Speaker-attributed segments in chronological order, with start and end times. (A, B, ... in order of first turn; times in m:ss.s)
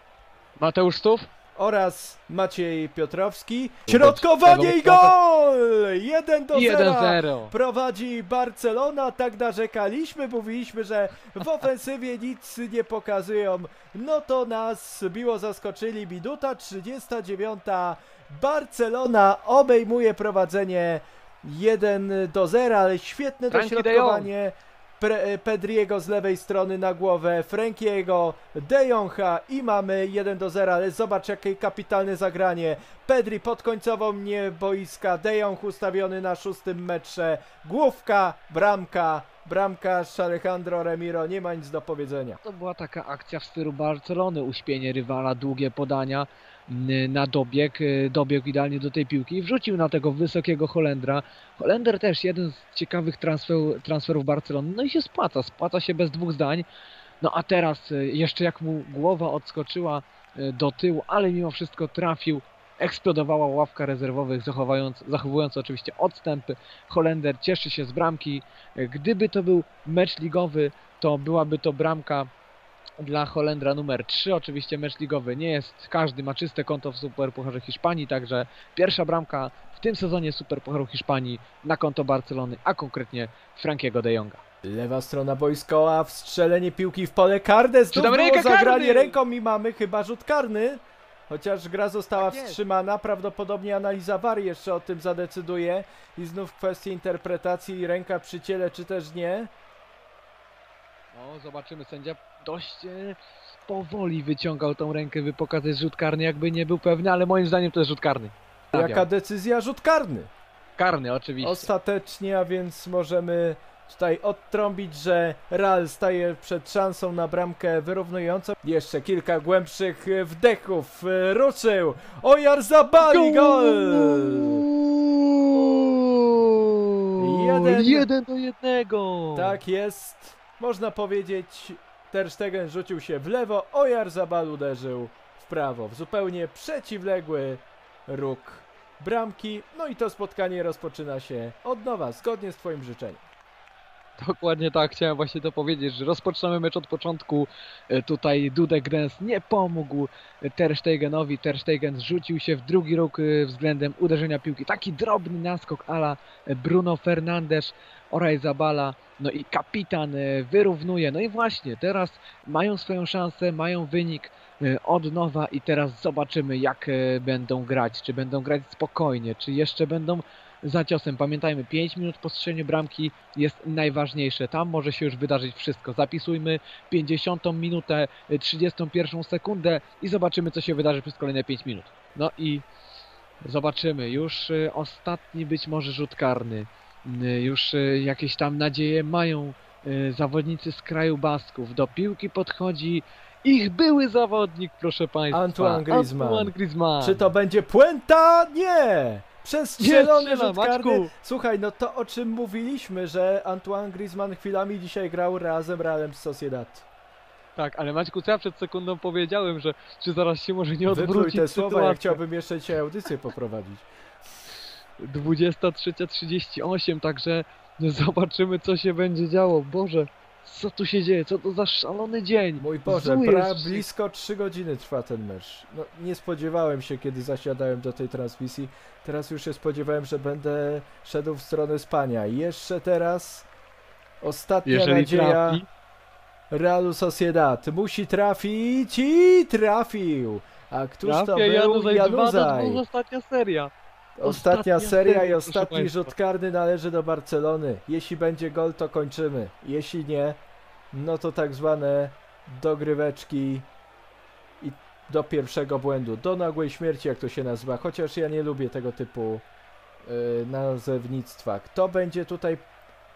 0:00.6-0:01.3 A
0:01.6-0:42.4 B
0:03.8-0:05.1 A
0:06.5-0:07.5 A
0:23.5-0:24.3 A
0:42.4-0:56.6 A
0:57.2-1:12.3 A
1:13.0-1:24.4 A
1:24.6-1:39.5 B
1:27.9-1:29.2 A
1:32.1-1:32.6 A
1:41.1-1:49.1 A
1:48.7-1:50.3 B
1:50.8-1:51.7 A
1:51.4-2:04.6 B
2:03.0-2:09.6 A
2:07.2-2:08.1 B
2:09.3-2:23.2 B
2:24.2-3:02.6 A
3:03.4-3:17.3 A
3:15.3-3:26.8 B
3:19.8-3:21.1 A
3:27.6-3:32.2 A
3:30.9-3:33.8 B
3:35.0-3:43.8 A
3:42.6-3:53.5 B
3:54.2-3:55.6 B
3:54.6-3:55.6 A
3:56.5-4:02.8 B
4:01.0-4:03.7 A
4:04.2-4:10.4 B
4:04.2-4:06.1 A
4:10.9-4:13.7 B
4:14.6-4:19.4 B
4:20.0-4:22.6 B